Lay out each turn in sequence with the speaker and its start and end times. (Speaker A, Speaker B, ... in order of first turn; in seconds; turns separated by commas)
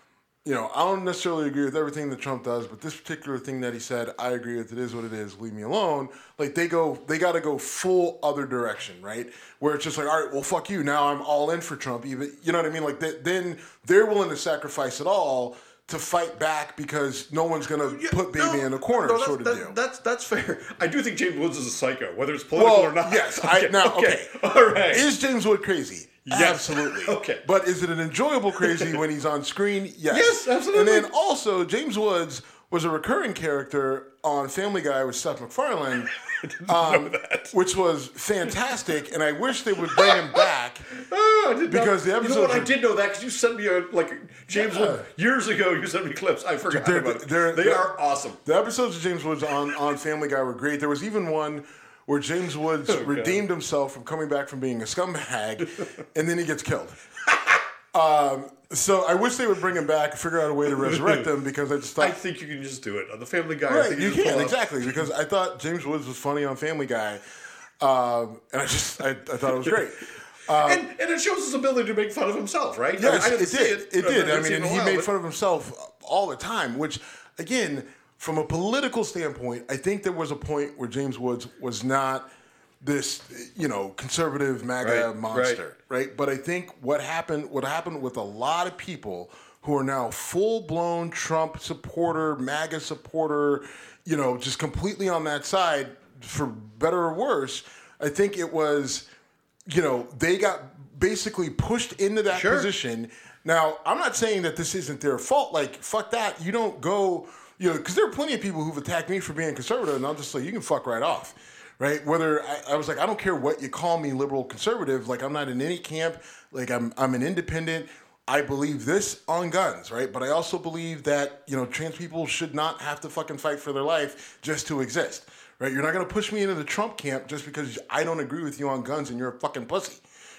Speaker A: 0.4-19.8, Speaker B: 17.8-25.1, Speaker A: 22.6-36.1, Speaker B: 26.3-27.4, Speaker B: 28.6-29.0, Speaker B: 30.1-31.1, Speaker B: 36.1-37.5, Speaker A: 36.6-40.9, Speaker B: 39.8-48.4, Speaker A: 41.7-42.7, Speaker A: 44.5-45.1, Speaker A: 46.7-57.0, Speaker B: 52.9-53.4, Speaker B: 57.3-57.6, Speaker A: 57.9-62.2, Speaker B: 60.7-61.3, Speaker B: 62.0-65.1, Speaker A: 63.7-67.2, Speaker A: 67.8-70.9, Speaker B: 70.5-75.1, Speaker A: 73.0-82.3, Speaker A: 82.8-99.1, Speaker B: 84.8-85.6, Speaker A: 99.7-130.0, Speaker B: 102.3-102.7